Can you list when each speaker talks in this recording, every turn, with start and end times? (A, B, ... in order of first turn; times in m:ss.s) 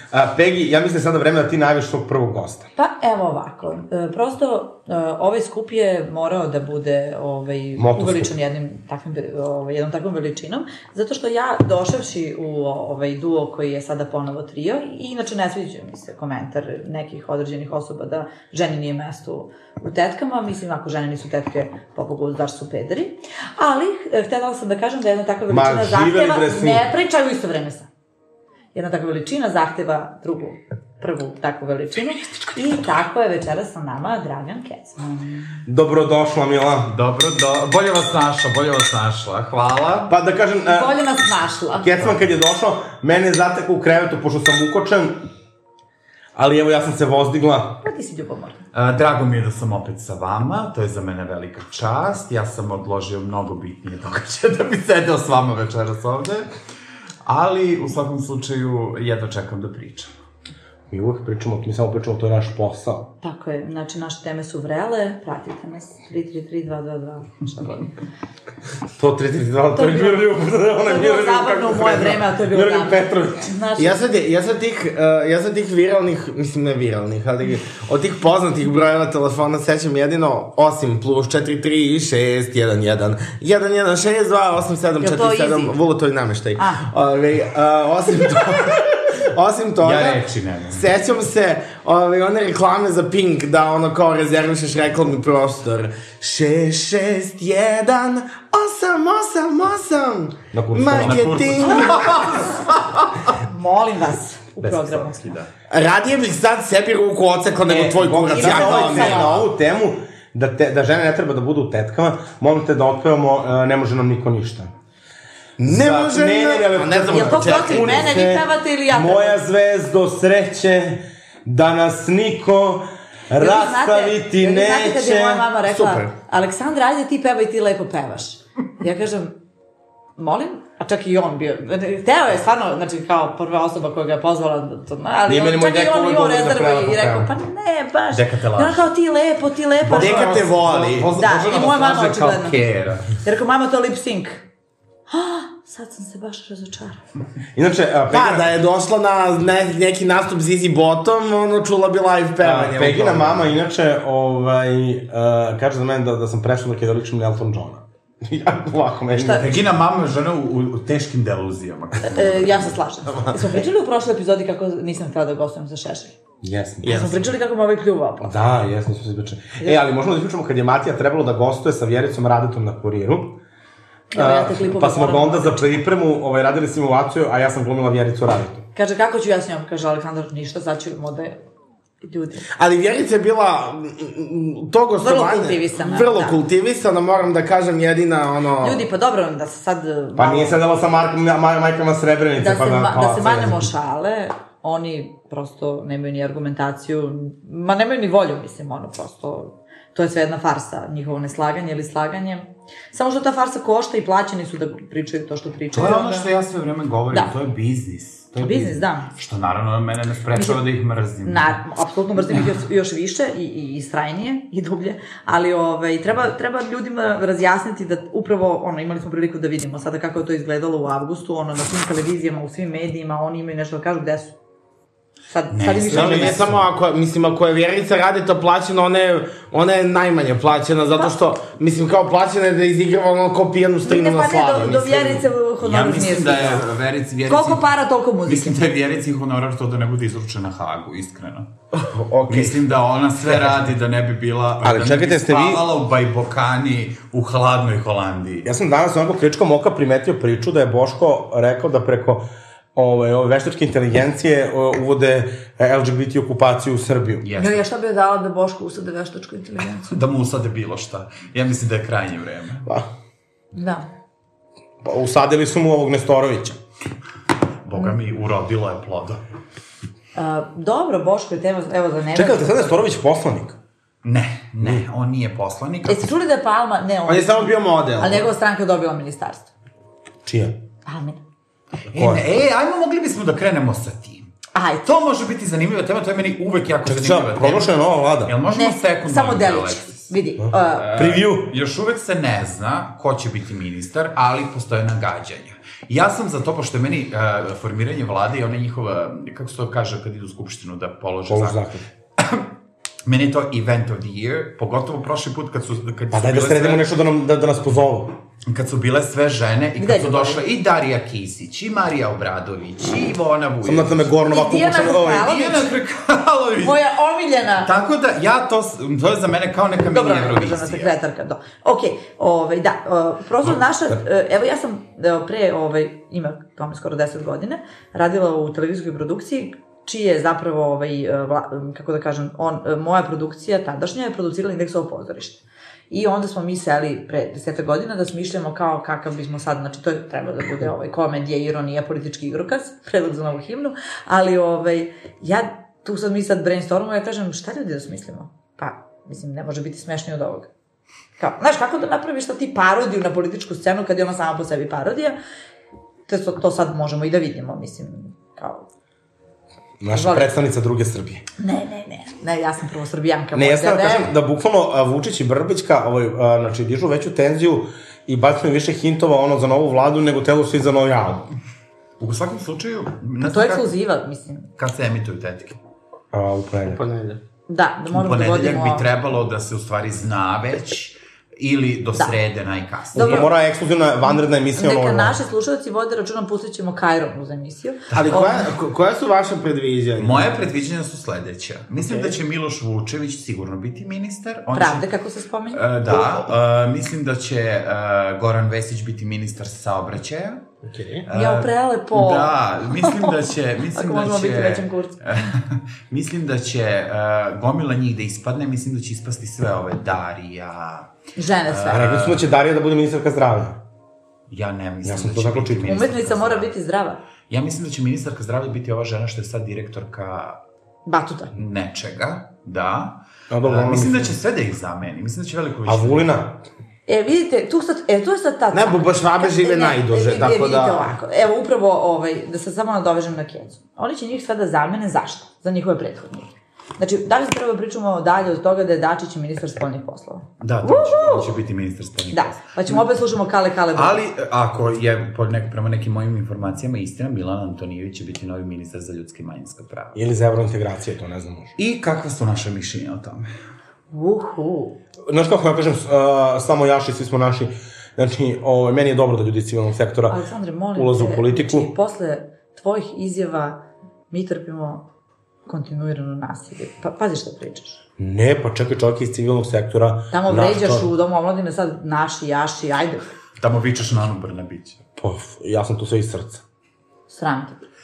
0:00.1-0:02.7 A
0:02.8-0:27.9 B
0:07.8-0:08.3 A
0:25.5-0:26.9 A
0:28.7-0:35.3 B
0:35.7-0:36.9 A
0:36.9-0:40.1 C
0:40.1-0:41.0 A
0:40.7-0:41.9 B
0:41.8-0:45.2 A
0:46.4-0:47.8 A
0:47.8-0:48.6 B
0:48.7-0:56.5 C
0:57.2-1:00.1 C
1:00.9-1:03.1 A
1:03.2-1:07.9 B
1:09.0-1:13.5 A
1:09.7-1:14.0 B
1:13.8-1:42.5 D
1:25.0-1:25.8 B
1:26.6-1:26.8 B
1:29.8-1:30.9 C
1:40.5-1:41.6 A
1:40.9-1:43.3 C
1:43.4-1:45.2 B
1:44.6-1:45.5 C
1:45.7-1:49.3 D
1:47.7-1:54.7 A
1:48.3-1:49.3 B
1:55.6-1:58.4 D
1:55.7-2:05.5 A
1:57.1-1:59.4 B
2:03.4-2:09.4 B
2:05.6-2:06.1 D
2:10.2-2:20.4 B
2:15.3-2:17.3 A
2:18.1-2:18.9 C
2:19.8-2:23.1 C
2:19.9-2:21.1 D
2:21.1-2:24.5 B
2:25.1-2:27.0 B
2:27.6-2:28.5 A
2:28.1-2:33.6 D
2:32.4-2:39.6 A
2:39.1-2:39.5 B
2:39.3-2:42.8 C
2:42.0-2:46.1 B
2:46.4-2:47.2 A
2:46.8-2:47.2 D
2:46.9-2:48.4 B
2:48.2-2:53.4 A
2:54.1-2:55.8 B
2:54.1-2:58.6 A
2:58.8-3:01.4 B
3:02.0-3:02.5 B
3:02.6-3:08.8 D
3:05.0-3:06.4 B
3:08.6-3:10.6 B
3:10.2-3:13.7 A
3:12.4-3:26.3 B
3:25.7-3:31.6 C
3:28.4-3:29.1 B
3:30.4-3:30.6 B
3:31.2-3:44.3 B
3:45.3-3:46.5 B
3:45.5-3:46.7 C
3:45.9-3:55.3 D
3:53.8-3:56.6 B
3:55.6-3:57.7 C
3:57.3-3:58.6 B
3:58.3-4:01.5 C
4:01.7-4:02.6 D
4:02.3-4:08.5 C
4:04.6-4:05.6 A
4:08.4-4:17.3 A
4:17.2-4:17.6 C
4:17.4-4:19.9 B
4:19.9-4:22.7 C
4:23.5-4:23.9 B
4:24.8-4:26.6 A
4:27.6-4:29.2 C
4:30.2-4:32.8 B
4:32.2-4:33.6 A
4:34.0-4:36.1 C
4:35.9-4:39.5 B
4:37.1-4:38.3 D
4:40.3-4:40.6 A
4:40.9-4:41.2 B
4:41.9-4:44.3 C
4:41.9-4:42.2 A
4:44.5-4:44.8 B
4:44.8-4:50.0 C
4:46.8-4:48.4 A
4:48.5-4:51.0 B
4:50.4-4:51.6 A
4:50.8-5:01.6 C
5:01.3-5:01.8 A
5:02.2-5:02.5 C
5:03.0-5:06.9 C
5:06.1-5:08.1 A
5:08.5-5:14.1 C
5:09.8-5:10.4 B
5:13.6-5:15.4 A
5:14.2-5:15.7 B
5:15.1-5:16.8 C
5:16.6-5:17.7 B
5:17.6-5:20.9 C
5:19.9-5:50.5 B
5:51.2-5:55.2 B
5:56.1-5:58.7 B
5:59.8-6:01.2 A
5:59.9-6:00.3 B
6:01.4-6:04.1 B
6:03.4-6:11.3 A
6:12.0-6:13.7 C
6:13.2-6:14.5 B
6:14.6-6:15.6 C
6:16.1-6:16.8 A
6:16.7-6:17.2 D
6:17.5-6:18.9 B
6:17.9-6:23.3 C
6:22.9-6:25.2 A
6:23.0-6:23.3 B
6:24.6-6:28.5 B
6:27.9-6:28.2 C
6:27.9-6:30.4 D
6:30.0-6:34.9 C
6:31.9-6:32.2 D
6:34.5-6:35.6 B
6:35.5-6:40.4 C
6:40.7-6:41.1 D
6:41.1-6:50.9 C
6:41.1-6:43.1 B
6:43.7-6:45.0 B
6:51.2-6:51.9 B
6:51.5-6:52.2 C
6:51.7-6:53.6 A
6:54.3-6:56.5 C
6:54.8-6:55.8 A
6:55.7-6:57.0 B
6:57.3-7:00.4 C
7:00.9-7:01.3 B
7:01.3-7:06.1 C
7:03.3-7:04.2 A
7:05.6-7:06.4 A
7:06.9-7:21.4 B
7:08.5-7:10.9 D
7:20.4-7:22.9 C
7:22.1-7:24.0 B
7:23.7-7:30.0 C
7:30.0-7:31.5 A
7:31.6-7:33.3 C
7:33.9-7:34.8 B
7:35.1-7:40.2 A
7:40.1-7:44.9 B
7:40.8-7:41.7 A
7:45.5-7:47.8 B
7:48.0-7:50.9 A
7:50.1-7:53.1 B
7:53.4-7:54.8 C
7:55.0-7:56.4 A
7:57.1-7:57.6 B